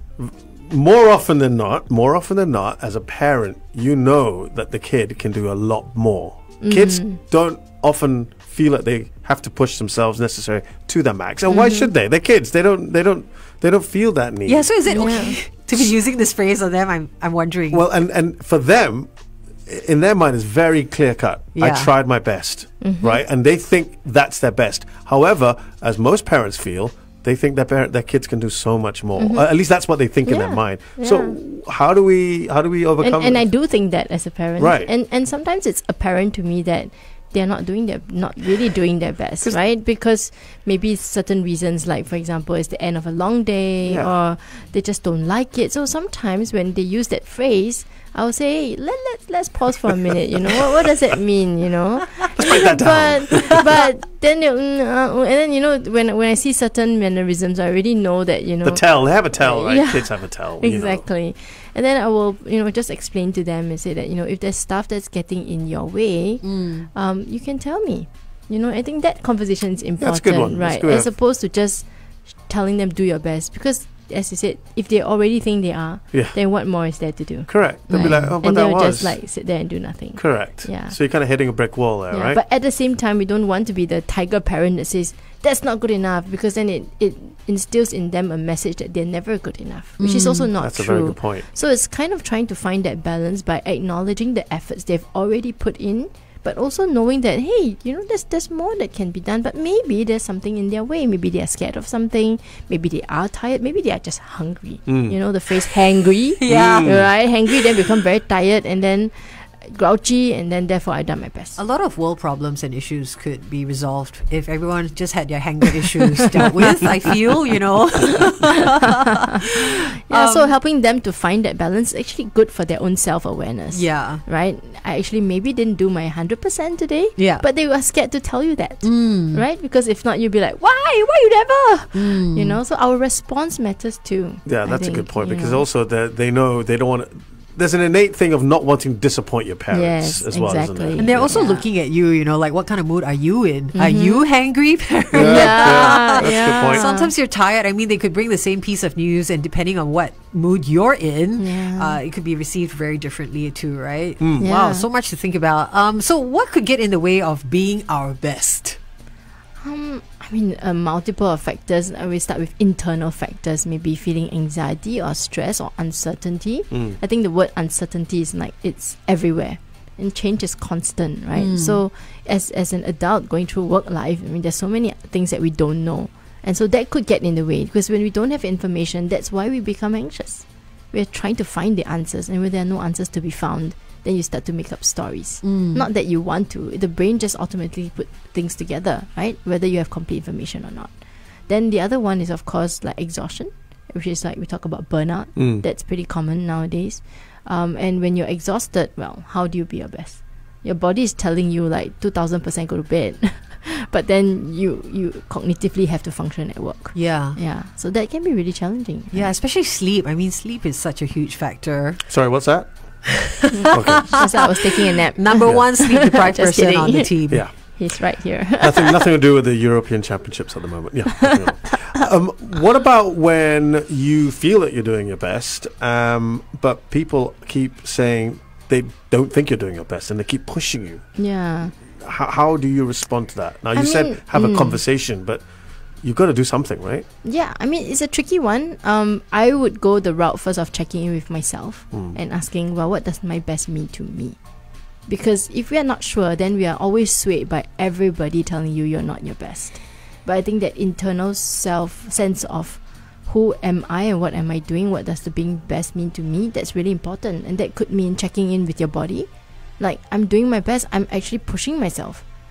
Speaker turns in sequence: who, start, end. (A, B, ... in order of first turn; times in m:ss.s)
0:00.2-0:14.9 A
0:06.6-0:07.2 B
0:11.5-0:11.9 B
0:14.5-0:17.8 C
0:14.9-0:15.4 B
0:17.7-0:19.1 A
0:19.6-0:33.6 A
0:21.6-0:21.9 C
0:22.8-0:23.2 B
0:29.2-0:29.5 B
0:30.2-0:31.4 B
0:33.0-1:21.0 B
0:34.6-0:34.9 A
0:43.8-0:44.1 A
0:52.4-0:53.8 A
0:58.6-1:01.0 A
1:06.4-1:06.9 C
1:10.0-1:11.1 A
1:16.1-1:16.4 A
1:17.5-1:19.2 A
1:17.9-1:18.3 C
1:20.2-1:22.4 A
1:22.1-1:51.6 B
1:30.0-1:30.5 C
1:30.6-1:31.5 A
1:44.9-1:45.2 A
1:46.4-1:47.8 C
1:46.5-1:47.1 A
1:51.6-2:00.5 C
1:56.0-1:56.9 B
1:58.3-1:58.6 B
1:59.5-2:15.6 B
2:03.7-2:04.2 C
2:07.2-2:07.4 C
2:08.8-2:09.4 C
2:11.9-2:12.6 C
2:14.4-2:21.4 A
2:19.7-2:21.7 B
2:21.0-2:38.8 C
2:23.7-2:24.2 B
2:25.1-2:27.1 B
2:25.1-2:26.9 A
2:31.4-2:32.0 B
2:34.2-2:34.4 A
2:34.4-2:34.9 B
2:39.6-3:29.3 B
2:46.7-2:47.0 A
2:51.4-2:51.8 C
3:05.4-3:05.8 C
3:15.4-3:15.6 A
3:26.9-3:27.4 C
3:29.1-3:32.2 C
3:32.1-3:34.3 A
3:33.1-3:37.5 C
3:33.5-3:39.0 B
3:35.5-3:35.7 A
3:37.3-3:51.3 A
3:51.2-3:51.7 B
3:52.0-3:55.5 A
3:53.8-3:54.8 B
3:56.0-3:57.1 A
3:57.2-4:04.4 B
4:05.1-4:22.2 B